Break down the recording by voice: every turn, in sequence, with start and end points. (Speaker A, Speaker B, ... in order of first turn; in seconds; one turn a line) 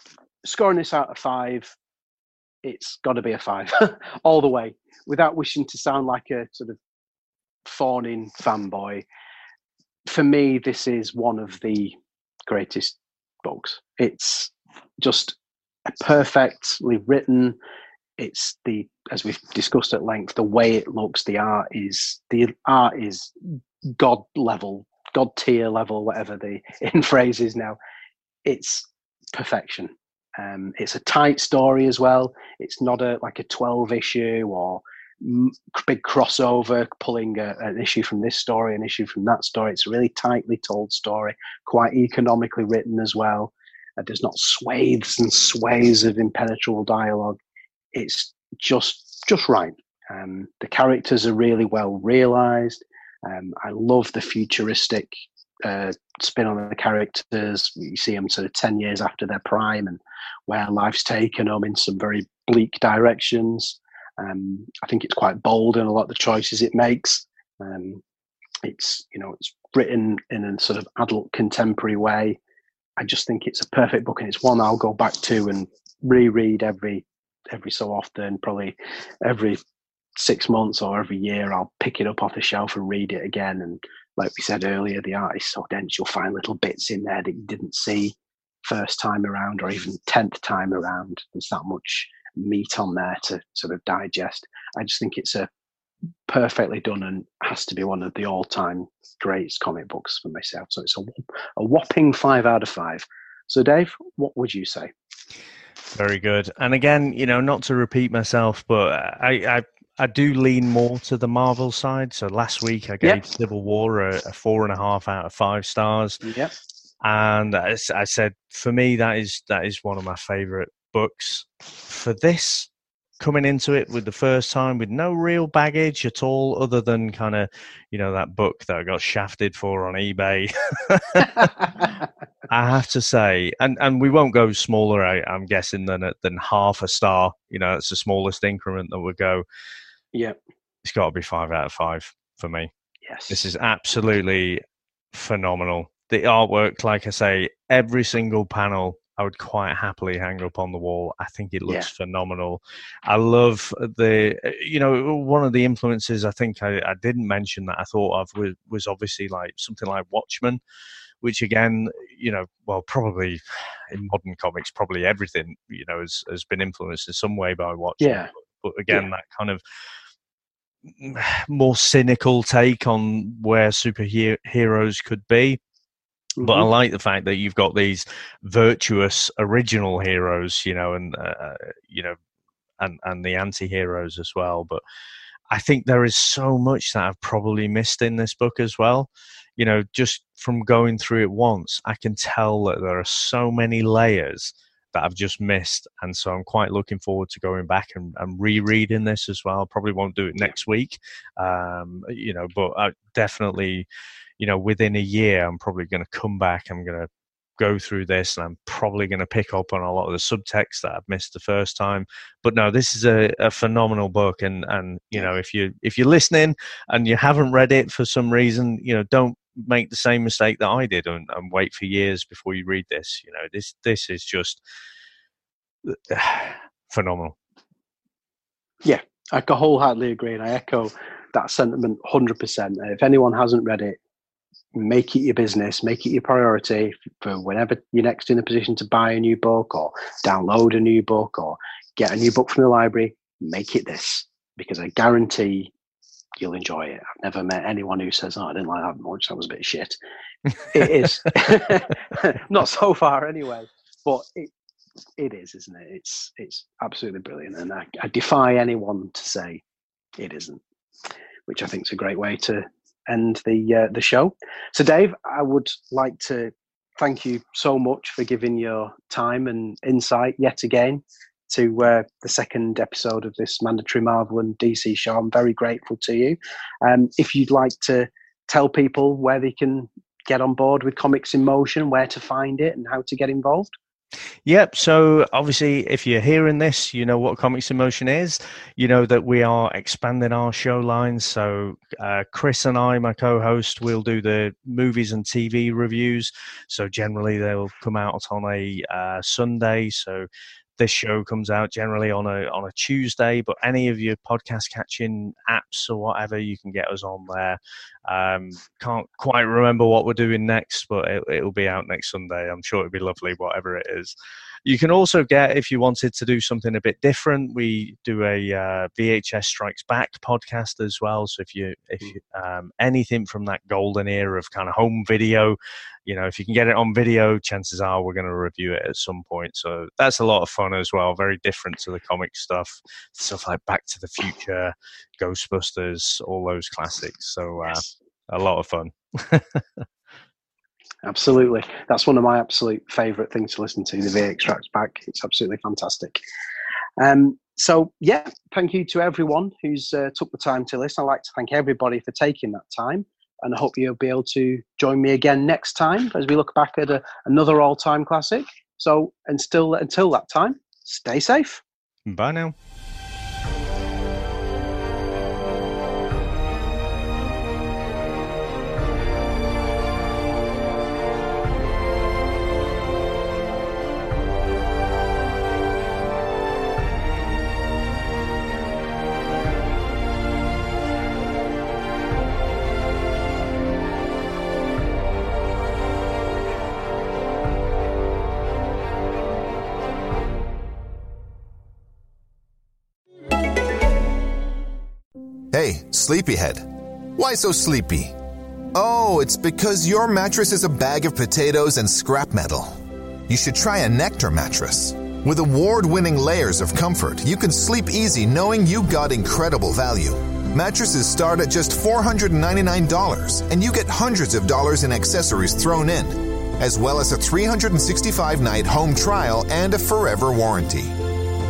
Speaker A: 0.4-1.7
Speaker A: 2.6-6.8
Speaker A: 7.6-9.0
Speaker A: 10.1-11.9
Speaker A: 12.5-17.6
Speaker A: 18.2-23.3
Speaker A: 23.9-27.8
Speaker A: 28.4-47.4
Speaker A: 47.9-68.0
Speaker A: 68.6-72.4
Speaker A: 73.0-79.6
Speaker A: 80.2-95.5
Speaker A: 96.3-104.9
Speaker B: 105.9-116.2
Speaker A: 116.2-116.5
Speaker B: 117.0-122.7
Speaker B: 123.2-131.9
Speaker B: 132.5-139.4
Speaker B: 140.8-142.7
Speaker A: 143.0-143.4
Speaker B: 143.3-144.6
Speaker B: 145.1-160.6
Speaker B: 161.2-169.6
Speaker A: 168.0-168.3
Speaker B: 170.8-175.6
Speaker A: 176.4-176.7
Speaker B: 176.4-182.2
Speaker B: 182.8-184.8
Speaker B: 185.5-203.8
Speaker B: 204.4-224.6
Speaker B: 225.8-227.3
Speaker A: 228.8-234.0
Speaker A: 234.7-245.7
Speaker A: 246.4-250.0
Speaker A: 250.7-254.5
Speaker B: 250.7-251.1
Speaker A: 255.2-259.6
Speaker A: 260.2-260.6
Speaker A: 261.5-283.7
Speaker B: 284.4-300.3
Speaker B: 300.8-339.8
Speaker A: 341.0-346.2
Speaker A: 347.0-361.6
Speaker B: 362.1-362.5
Speaker C: 395.5-398.2
Speaker C: 398.7-421.0